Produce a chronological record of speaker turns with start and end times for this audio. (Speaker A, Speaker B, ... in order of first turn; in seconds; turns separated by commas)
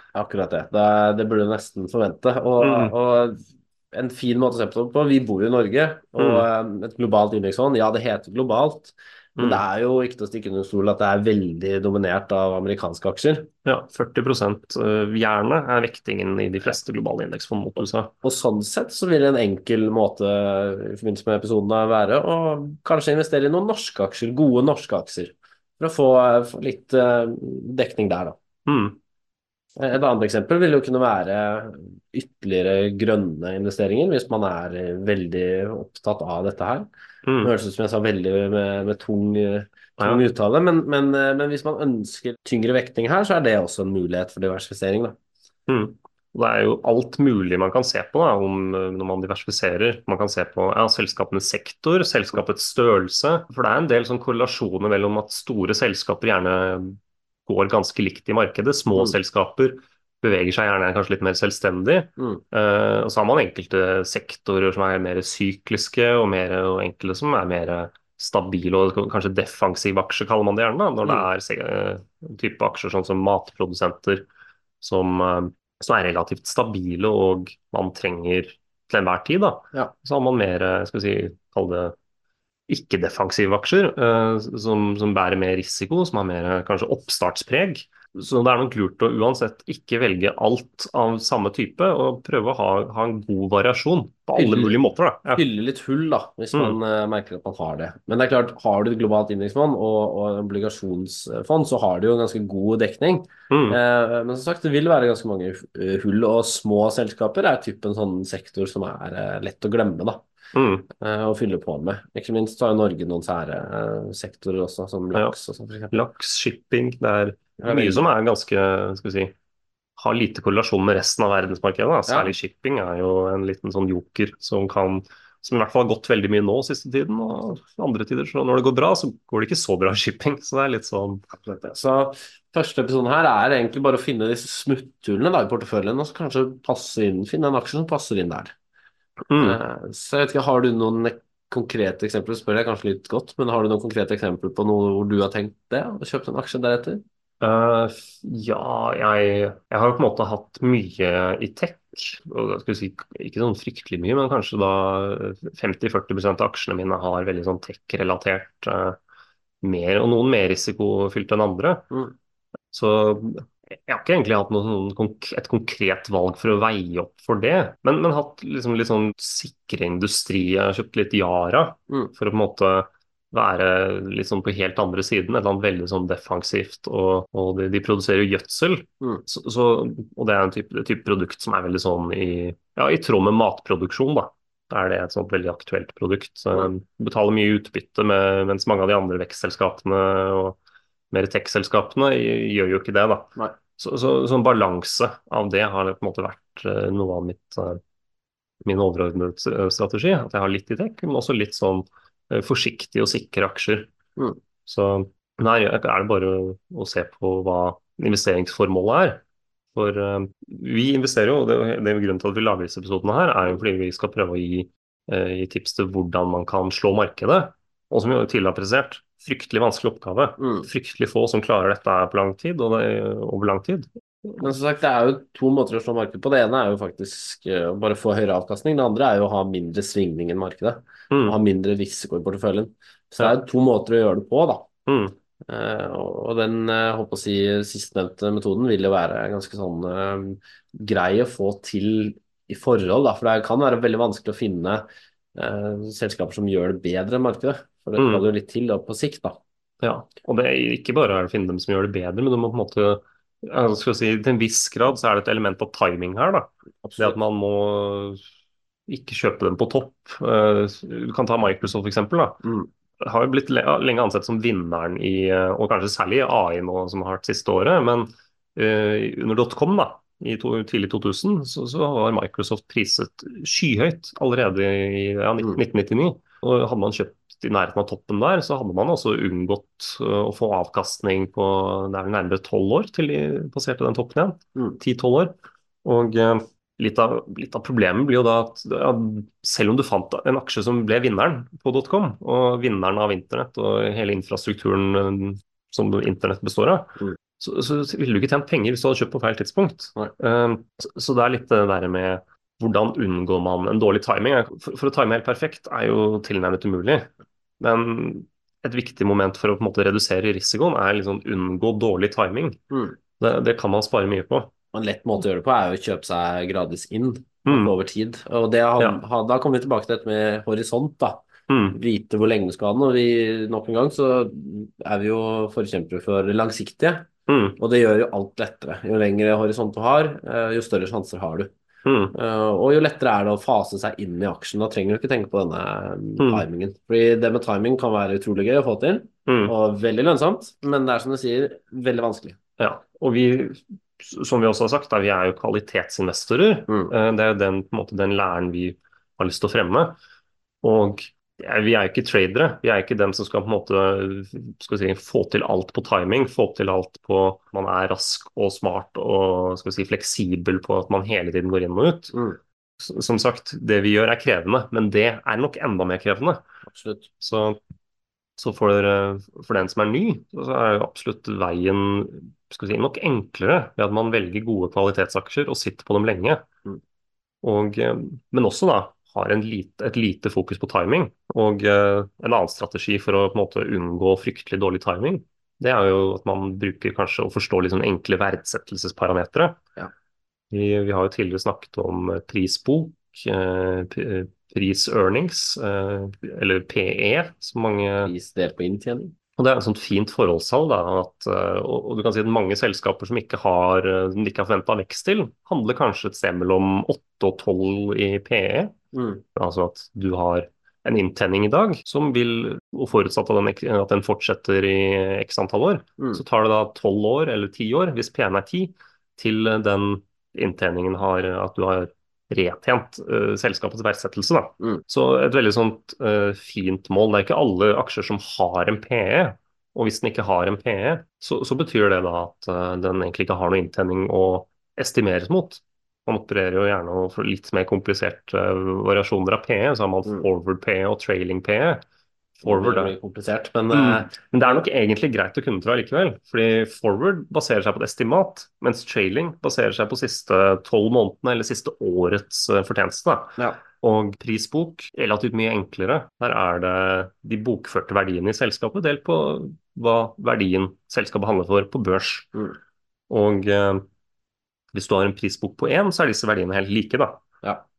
Speaker A: 0.1-13.5, Speaker B: 2.6-2.9, Speaker B: 6.2-6.5, Speaker B: 13.7-18.1, Speaker A: 18.2-28.4, Speaker B: 28.7-29.0, Speaker A: 29.8-36.9, Speaker B: 37.3-37.5, Speaker A: 37.4-45.2, Speaker B: 40.0-40.2, Speaker B: 45.7-74.3, Speaker B: 74.8-81.9, Speaker B: 82.7-95.4, Speaker A: 94.3-94.8, Speaker A: 95.3-110.3, Speaker B: 103.5-103.8, Speaker B: 110.5-110.9, Speaker A: 111.0-115.9, Speaker B: 115.9-119.3, Speaker A: 117.6-118.1, Speaker B: 120.0-131.2, Speaker A: 131.3-138.5, Speaker B: 139.3-139.6, Speaker A: 139.4-147.0, Speaker B: 147.4-159.0, Speaker B: 159.6-161.8, Speaker B: 162.7-190.6, Speaker B: 191.1-197.8, Speaker B: 198.7-203.9, Speaker B: 204.7-209.2, Speaker B: 209.8-224.4, Speaker A: 220.4-220.7, Speaker A: 224.4-234.7, Speaker B: 234.9-235.1, Speaker A: 235.5-249.4, Speaker B: 248.0-248.2, Speaker B: 249.8-258.2, Speaker A: 256.8-257.2, Speaker B: 258.9-262.4, Speaker B: 263.0-307.1, Speaker B: 307.6-312.6, Speaker A: 312.7-313.0, Speaker B: 313.2-314.5, Speaker A: 314.7-327.1, Speaker B: 321.5-321.8, Speaker B: 327.3-327.6, Speaker A: 327.6-331.5, Speaker B: 331.9-332.1, Speaker A: 332.1-342.4, Speaker B: 336.2-336.4, Speaker B: 339.3-339.5, Speaker B: 342.6-350.0, Speaker A: 346.7-346.9, Speaker B: 350.6-362.1, Speaker A: 362.1-362.4, Speaker B: 362.8-366.4, Speaker A: 366.7-367.1, Speaker B: 367.2-367.6, Speaker B: 368.4-376.4, Speaker B: 377.4-389.6, Speaker B: 390.5-398.1, Speaker A: 398.0-399.1, Speaker B: 399.4-408.7, Speaker A: 408.9-409.2, Speaker B: 409.4-441.8, Speaker B: 442.4-442.9, Speaker A: 442.4-444.1, Speaker B: 443.7-462.3, Speaker B: 463.1-463.8, Speaker B: 464.7-467.2